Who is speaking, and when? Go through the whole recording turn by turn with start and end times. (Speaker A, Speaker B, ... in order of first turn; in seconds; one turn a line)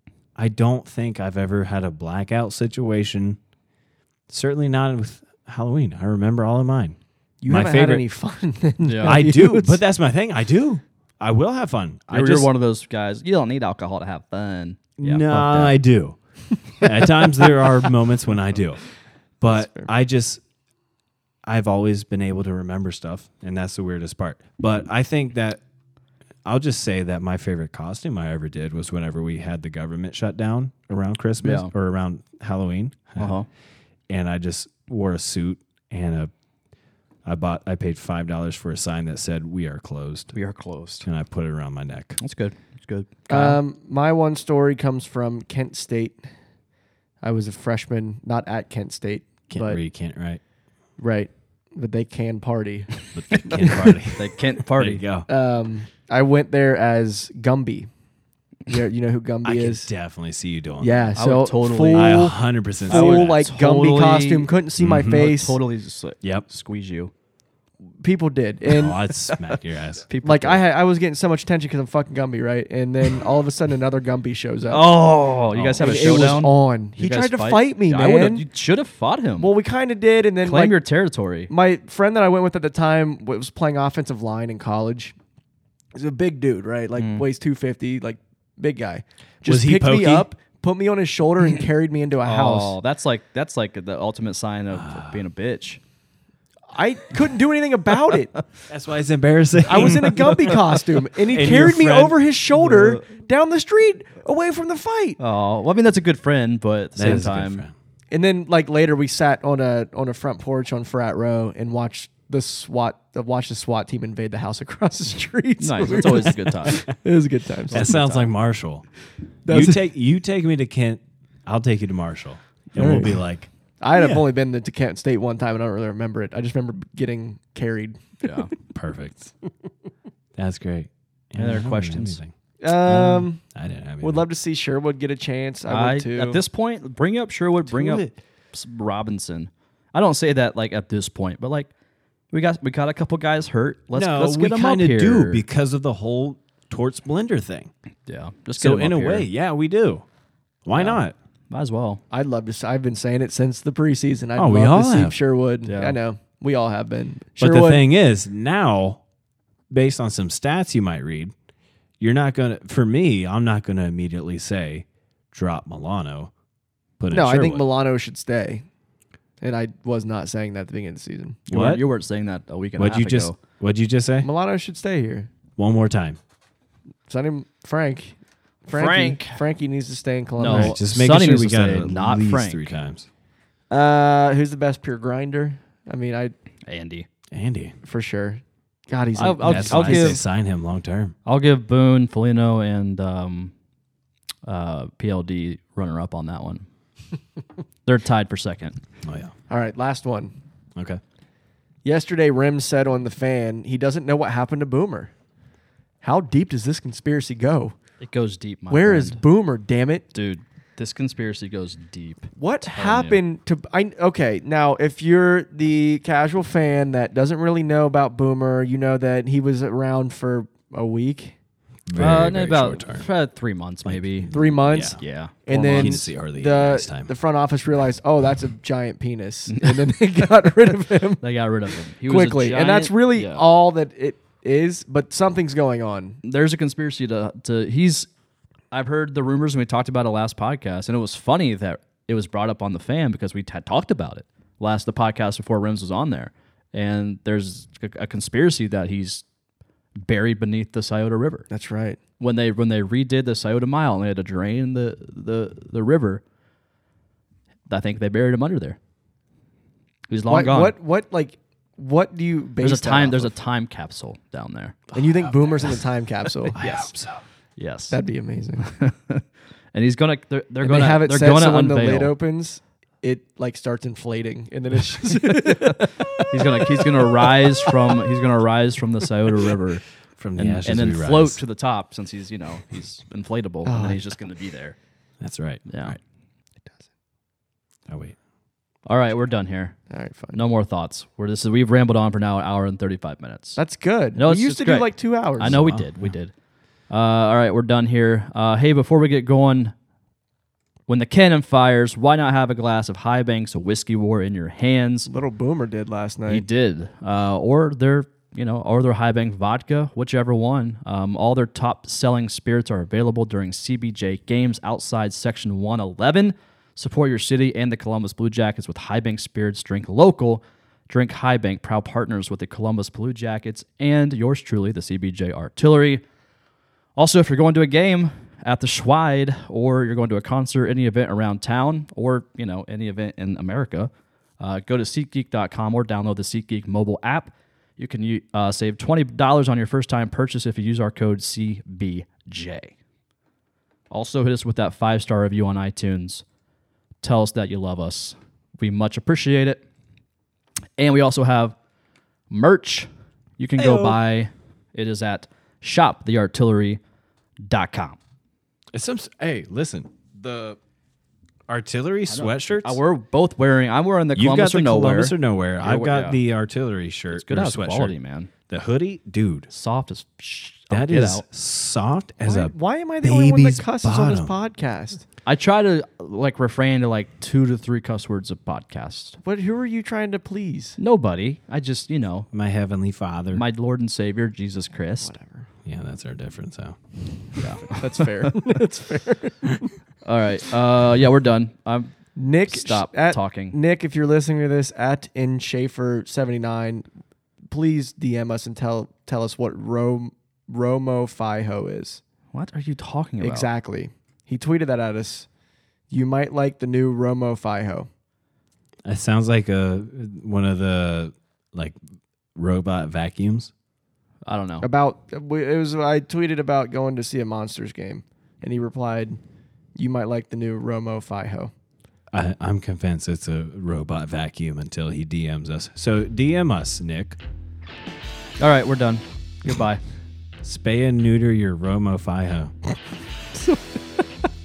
Speaker A: 0.3-3.4
Speaker A: 4.3-7.0
Speaker B: 7.4-9.8
Speaker A: 7.5-8.0
Speaker C: 8.8-9.2
Speaker A: 9.1-12.5
Speaker C: 12.1-15.8
Speaker A: 15.0-16.2
Speaker A: 16.7-18.8
Speaker A: 19.4-20.4
Speaker B: 19.5-19.9
Speaker A: 21.4-25.6
Speaker A: 26.4-33.3
Speaker C: 31.4-31.7
Speaker C: 33.2-33.5
Speaker A: 34.1-36.3
Speaker A: 37.2-40.3
Speaker C: 40.3-41.1
Speaker A: 41.0-42.2
Speaker C: 42.2-43.6
Speaker B: 43.3-46.2
Speaker B: 47.2-49.8
Speaker A: 49.5-50.4
Speaker B: 51.0-53.9
Speaker A: 53.1-55.3
Speaker C: 54.1-55.0
Speaker B: 55.3-57.9
Speaker B: 58.7-59.9
Speaker A: 59.4-61.2
Speaker B: 60.8-65.6
Speaker C: 61.1-67.1
Speaker A: 61.9-63.4
Speaker A: 64.8-65.2
Speaker B: 68.0-69.0
Speaker A: 68.7-70.0
Speaker C: 69.3-69.6
Speaker C: 70.1-70.6
Speaker B: 70.2-75.0
Speaker C: 74.7-79.5
Speaker A: 75.5-76.4
Speaker B: 75.8-78.4
Speaker B: 79.4-80.8
Speaker C: 80.4-81.5
Speaker B: 81.5-85.2
Speaker B: 85.9-92.8
Speaker C: 87.0-87.2
Speaker A: 89.5-90.3
Speaker C: 92.2-95.8
Speaker A: 94.7-95.2
Speaker B: 96.7-98.3
Speaker A: 98.7-100.6
Speaker B: 99.6-105.2
Speaker A: 101.3-102.1
Speaker C: 102.7-103.0
Speaker C: 105.2-107.6
Speaker A: 107.0-107.7
Speaker B: 108.1-117.9
Speaker C: 115.6-116.8
Speaker C: 117.7-118.3
Speaker A: 117.7-118.8
Speaker B: 119.4-119.8
Speaker A: 119.5-123.5
Speaker B: 122.8-123.2
Speaker B: 123.8-128.4
Speaker C: 128.2-128.5
Speaker A: 128.7-129.3
Speaker A: 130.3-134.2
Speaker C: 131.4-132.2
Speaker B: 132.6-133.4
Speaker B: 134.0-136.4
Speaker C: 135.7-141.7
Speaker A: 137.7-138.1
Speaker C: 142.3-145.4
Speaker A: 143.9-147.7
Speaker C: 148.1-149.3
Speaker A: 148.6-150.0
Speaker A: 150.6-151.1
Speaker C: 150.7-152.0
Speaker B: 152.1-157.8
Speaker A: 154.4-155.2
Speaker C: 155.7-156.0
Speaker A: 157.4-159.0
Speaker A: 159.7-161.3
Speaker A: 162.0-166.3
Speaker A: 167.0-167.6
Speaker B: 167.1-168.6
Speaker B: 169.4-171.4
Speaker C: 171.5-173.4
Speaker A: 171.5-171.8
Speaker A: 172.8-174.3
Speaker B: 174.2-175.3
Speaker A: 175.6-176.2
Speaker B: 177.1-180.8
Speaker C: 178.7-179.4
Speaker C: 180.4-182.7
Speaker A: 180.5-183.1
Speaker B: 183.7-186.3
Speaker C: 186.7-187.1
Speaker A: 187.3-187.8
Speaker B: 187.8-190.2
Speaker C: 189.2-190.2
Speaker A: 189.4-191.1
Speaker C: 191.2-193.5
Speaker C: 194.4-196.6
Speaker C: 197.8-198.8
Speaker A: 199.0-199.3
Speaker B: 199.5-200.3
Speaker A: 200.8-201.0
Speaker B: 201.8-205.1
Speaker B: 206.0-207.7
Speaker C: 208.0-209.2
Speaker B: 208.7-210.1
Speaker C: 210.1-213.2
Speaker B: 212.4-221.3
Speaker A: 221.9-223.1
Speaker C: 222.0-226.0
Speaker A: 223.8-227.1
Speaker B: 224.3-231.2
Speaker C: 229.5-230.0
Speaker C: 231.2-233.4
Speaker B: 232.0-236.2
Speaker C: 236.2-238.1
Speaker C: 238.7-249.2
Speaker C: 250.0-251.5
Speaker B: 251.5-252.0
Speaker C: 252.2-256.2
Speaker C: 257.7-258.8
Speaker C: 260.1-260.8
Speaker B: 260.3-263.3
Speaker C: 262.6-264.9
Speaker B: 264.9-266.6
Speaker C: 266.5-266.9
Speaker A: 266.6-267.2
Speaker C: 267.6-268.0
Speaker B: 267.9-268.7
Speaker C: 268.6-269.2
Speaker C: 269.7-272.1
Speaker B: 270.6-278.0
Speaker C: 275.1-279.8
Speaker A: 280.2-281.4
Speaker C: 280.4-284.8
Speaker B: 283.6-284.0
Speaker A: 285.2-286.0
Speaker C: 285.7-286.0
Speaker A: 287.9-288.1
Speaker C: 288.9-289.8
Speaker B: 289.9-290.4
Speaker C: 290.3-293.6
Speaker B: 293.6-295.6
Speaker C: 294.1-296.3
Speaker A: 295.4-296.1
Speaker C: 296.9-299.7
Speaker C: 300.9-305.1
Speaker B: 305.1-306.4
Speaker C: 306.3-326.0
Speaker C: 327.0-342.7
Speaker C: 343.9-346.2
Speaker C: 347.0-349.6
Speaker C: 350.8-351.5
Speaker C: 352.3-356.8
Speaker A: 353.6-354.0
Speaker C: 357.4-358.0
Speaker A: 358.7-360.6
Speaker A: 361.5-362.8
Speaker C: 362.1-366.2
Speaker A: 364.1-367.9
Speaker C: 367.1-368.3
Speaker A: 368.5-369.5
Speaker C: 369.5-371.2
Speaker A: 370.7-374.3
Speaker B: 372.2-375.0
Speaker C: 375.2-379.2
Speaker B: 379.2-380.8
Speaker C: 380.8-382.3
Speaker A: 382.3-383.4
Speaker C: 383.3-385.1
Speaker B: 385.0-385.5
Speaker A: 385.6-386.8
Speaker C: 387.4-388.6
Speaker B: 387.7-389.7
Speaker C: 390.0-393.6
Speaker B: 392.2-396.9
Speaker B: 397.5-402.0
Speaker C: 402.3-403.5
Speaker B: 403.2-405.3
Speaker B: 405.9-407.9
Speaker A: 408.8-411.8
Speaker A: 412.4-413.5
Speaker C: 414.2-414.7
Speaker B: 414.6-419.2
Speaker B: 419.8-421.5
Speaker A: 422.1-427.2
Speaker C: 428.4-429.8
Speaker A: 430.4-432.5
Speaker B: 433.3-434.3